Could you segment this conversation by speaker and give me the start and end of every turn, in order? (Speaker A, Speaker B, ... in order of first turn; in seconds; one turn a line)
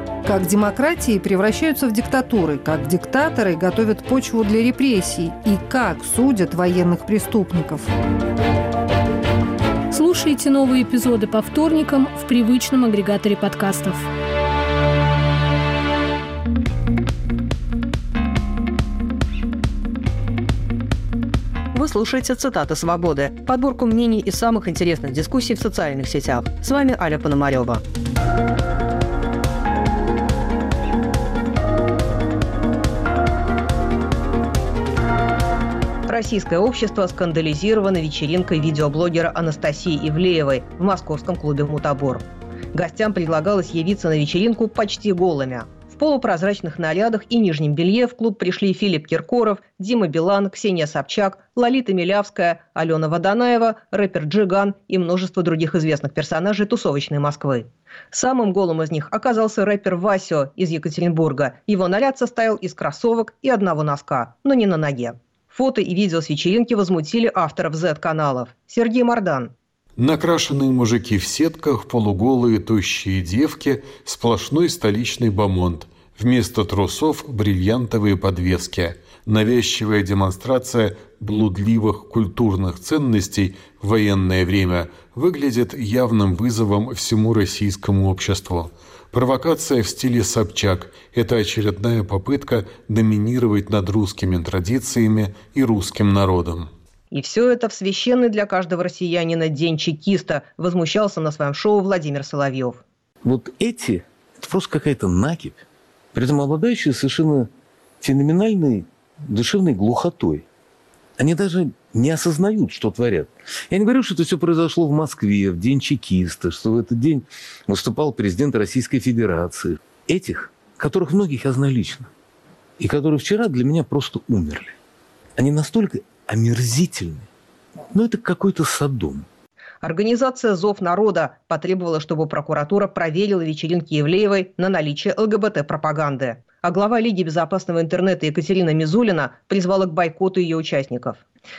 Speaker A: 0.2-7.9
Speaker B: 9.9-14.1
Speaker C: 21.7-27.8
Speaker C: 36.1-69.5
Speaker D: 70.0-96.7
Speaker C: 97.1-102.8
Speaker E: 103.2-105.6
Speaker E: 106.1-107.5
Speaker E: 108.0-110.4
Speaker E: 111.2-122.1
Speaker E: 122.8-124.8
Speaker E: 125.4-127.3
Speaker E: 127.9-129.2
Speaker C: 129.8-141.2